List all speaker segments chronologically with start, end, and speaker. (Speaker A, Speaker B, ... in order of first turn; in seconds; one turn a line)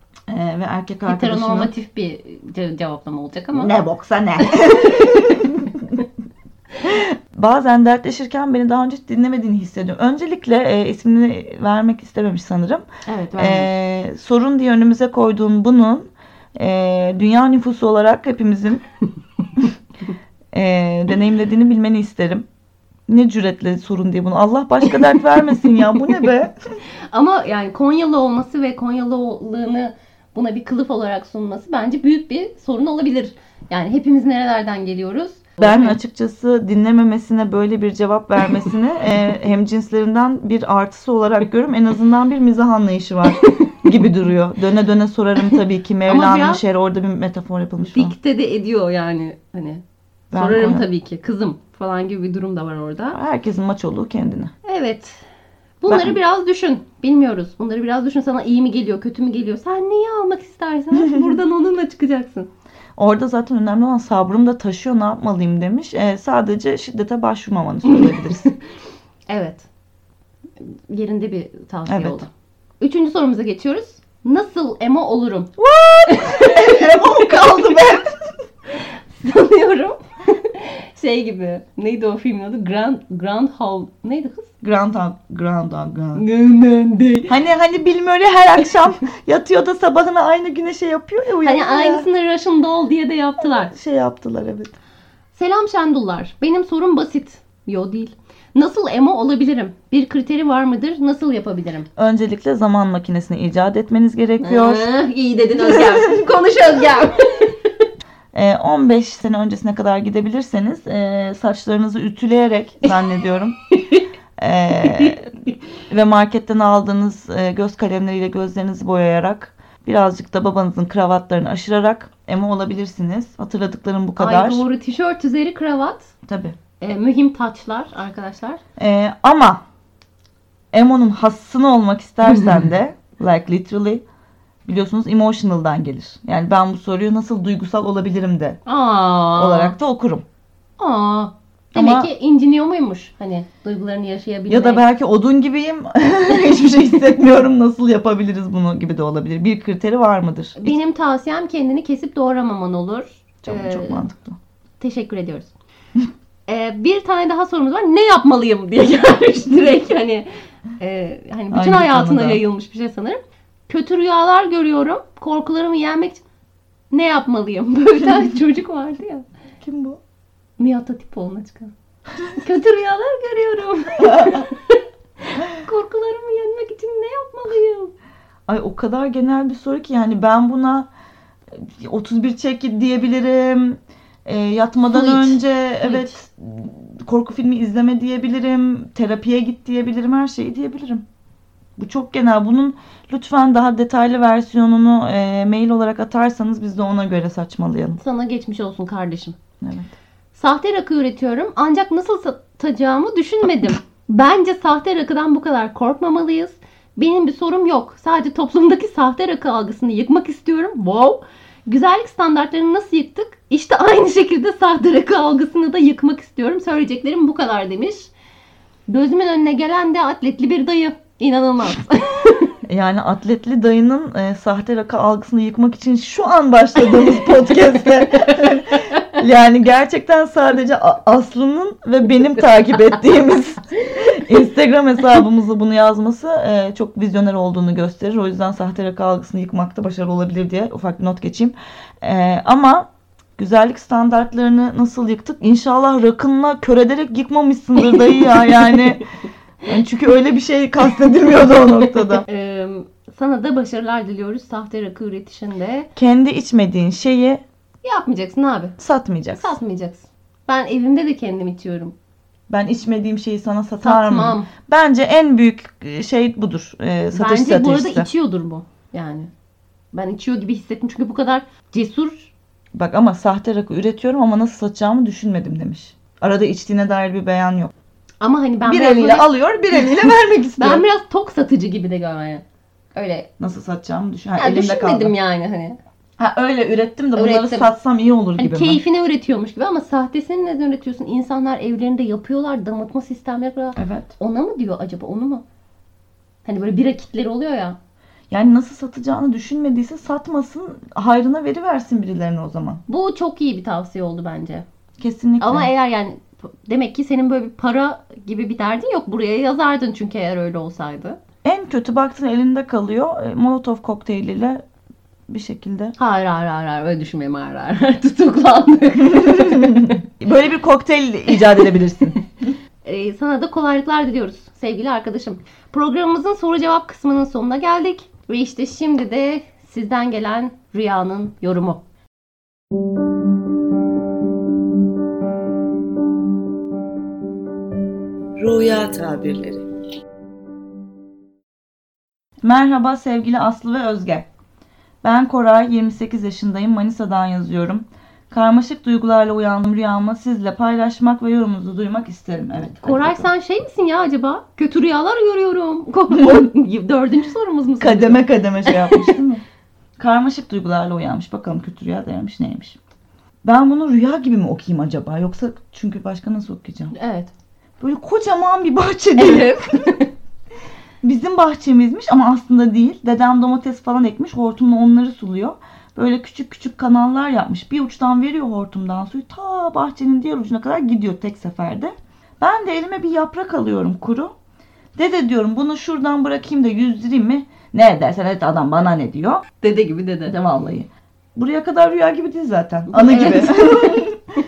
Speaker A: 0.3-1.7
Speaker B: 1.1-3.7
Speaker A: 3.5-6.0
Speaker B: 4.5-5.2
Speaker A: 6.8-12.8
Speaker B: 13.1-13.7
Speaker A: 13.4-18.8
Speaker A: 20.5-22.4
Speaker A: 23.1-26.5
Speaker B: 27.1-36.0
Speaker A: 35.6-48.1
Speaker B: 43.4-43.7
Speaker B: 45.5-46.6
Speaker B: 47.9-53.2
Speaker A: 50.3-50.9
Speaker A: 53.1-54.5
Speaker B: 54.6-55.2
Speaker B: 55.8-62.5
Speaker A: 55.9-56.2
Speaker A: 63.0-68.5
Speaker B: 67.9-68.5
Speaker B: 69.3-69.7
Speaker B: 70.6-72.3
Speaker A: 71.9-72.2
Speaker B: 72.8-77.8
Speaker A: 76.1-78.2
Speaker B: 78.7-84.5
Speaker A: 84.6-86.2
Speaker B: 86.2-87.3
Speaker A: 87.3-92.0
Speaker B: 91.4-93.7
Speaker A: 93.6-94.7
Speaker B: 95.3-101.9
Speaker A: 102.0-104.9
Speaker B: 104.4-107.6
Speaker A: 108.3-113.5
Speaker A: 114.4-115.3
Speaker A: 115.9-124.6
Speaker B: 124.2-126.1
Speaker A: 126.3-126.5
Speaker B: 126.8-128.6
Speaker A: 128.8-129.6
Speaker A: 130.7-134.0
Speaker B: 132.3-132.6
Speaker A: 134.7-138.6
Speaker B: 138.7-139.7
Speaker A: 139.3-140.2
Speaker B: 140.8-144.8
Speaker A: 141.8-142.1
Speaker A: 144.5-150.8
Speaker B: 150.6-154.0
Speaker A: 153.4-154.4
Speaker B: 154.8-155.5
Speaker B: 156.5-160.3
Speaker B: 160.8-166.2
Speaker A: 161.5-162.4
Speaker B: 166.9-169.2
Speaker A: 169.6-170.0
Speaker B: 170.6-171.7
Speaker B: 172.3-177.9
Speaker A: 174.0-174.4
Speaker A: 178.5-180.9
Speaker A: 181.5-191.0
Speaker B: 184.9-186.1
Speaker A: 191.8-198.0
Speaker B: 198.0-199.3
Speaker A: 199.6-199.9
Speaker B: 200.3-218.1
Speaker B: 218.9-222.5
Speaker A: 222.7-249.0
Speaker A: 249.7-252.2
Speaker B: 252.2-255.9
Speaker A: 255.9-257.4
Speaker B: 257.8-258.8
Speaker A: 258.8-259.6
Speaker B: 259.3-261.9
Speaker A: 262.5-268.1
Speaker B: 263.8-264.5
Speaker B: 267.1-269.3
Speaker B: 269.9-272.3
Speaker A: 272.7-277.7
Speaker B: 278.2-282.4
Speaker A: 278.6-280.8
Speaker B: 282.9-283.3
Speaker A: 283.4-285.1
Speaker B: 284.4-285.8
Speaker A: 286.2-288.8
Speaker B: 287.1-287.7
Speaker B: 288.4-295.4
Speaker A: 293.8-294.1
Speaker B: 296.4-297.8
Speaker A: 298.3-302.8
Speaker B: 302.9-304.6
Speaker A: 305.0-305.7
Speaker B: 305.4-311.2
Speaker A: 311.4-314.6
Speaker A: 315.3-315.9
Speaker B: 316.0-320.0
Speaker A: 319.1-322.2
Speaker B: 322.8-331.8
Speaker A: 338.4-339.6
Speaker A: 342.4-344.3
Speaker A: 345.0-353.3
Speaker B: 352.8-359.1
Speaker A: 356.1-356.5
Speaker A: 357.8-359.4
Speaker A: 360.0-362.8
Speaker A: 363.4-366.9
Speaker B: 366.9-367.3
Speaker A: 367.8-369.9
Speaker B: 369.2-370.1
Speaker A: 371.0-384.3
Speaker A: 384.9-389.4
Speaker B: 389.6-390.3
Speaker A: 390.2-394.2
Speaker B: 392.9-394.0